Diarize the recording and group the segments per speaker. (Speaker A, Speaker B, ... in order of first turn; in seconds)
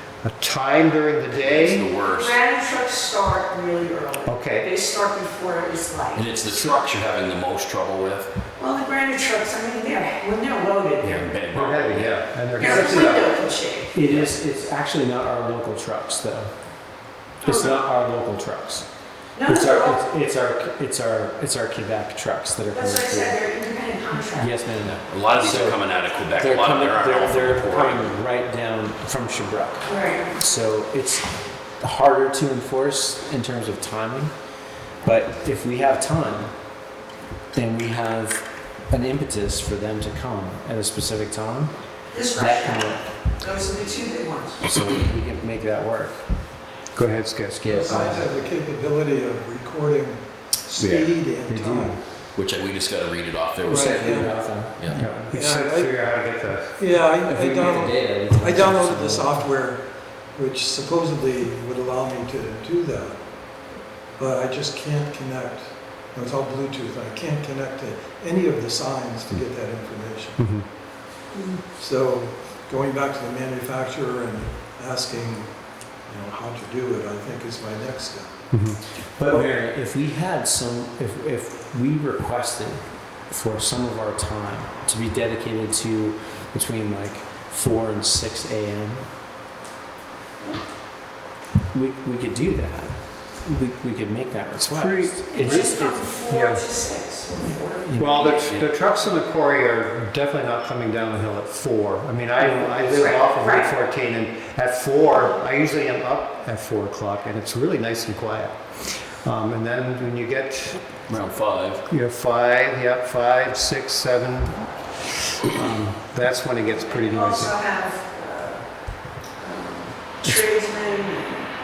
Speaker A: 0.2-1.9, 4.2-4.7, 11.0-13.3, 46.9-48.2, 55.0-56.7, 70.4-70.7, 78.5-78.8, 94.6-95.8, 96.3-96.6, 98.0-108.6, 109.2-110.8, 111.9-114.7, 115.5-117.5
Speaker B: 1.4-2.4, 6.1-8.3, 11.1-12.1, 24.8-28.1, 47.6-48.1, 50.8-51.1, 52.4-54.1, 54.8-55.0, 111.1-111.8
Speaker C: 2.0-6.4, 8.6-11.2, 12.6-13.9, 17.4-17.7, 19.3-20.0, 22.7-24.5, 29.9-30.3, 42.1-44.6, 95.3-98.5, 102.9-103.7, 116.8-118.6, 119.4-121.4
Speaker D: 12.6-13.1, 13.9-16.5, 17.4-18.9, 19.4-23.4, 24.2-25.8, 26.4-29.9, 30.4-31.2, 31.8-34.3, 35.0-36.5, 37.5-41.7, 42.3-43.0, 44.6-46.2, 47.9-48.2, 51.5-51.9, 53.7-54.7, 57.2-59.4, 79.2-89.1, 91.7-96.0, 97.8-98.4, 102.4-103.1
Speaker E: 47.7-52.0, 53.7-55.9, 56.8-59.8, 60.3-63.2, 64.2-70.4, 71.8-75.5, 76.1-78.3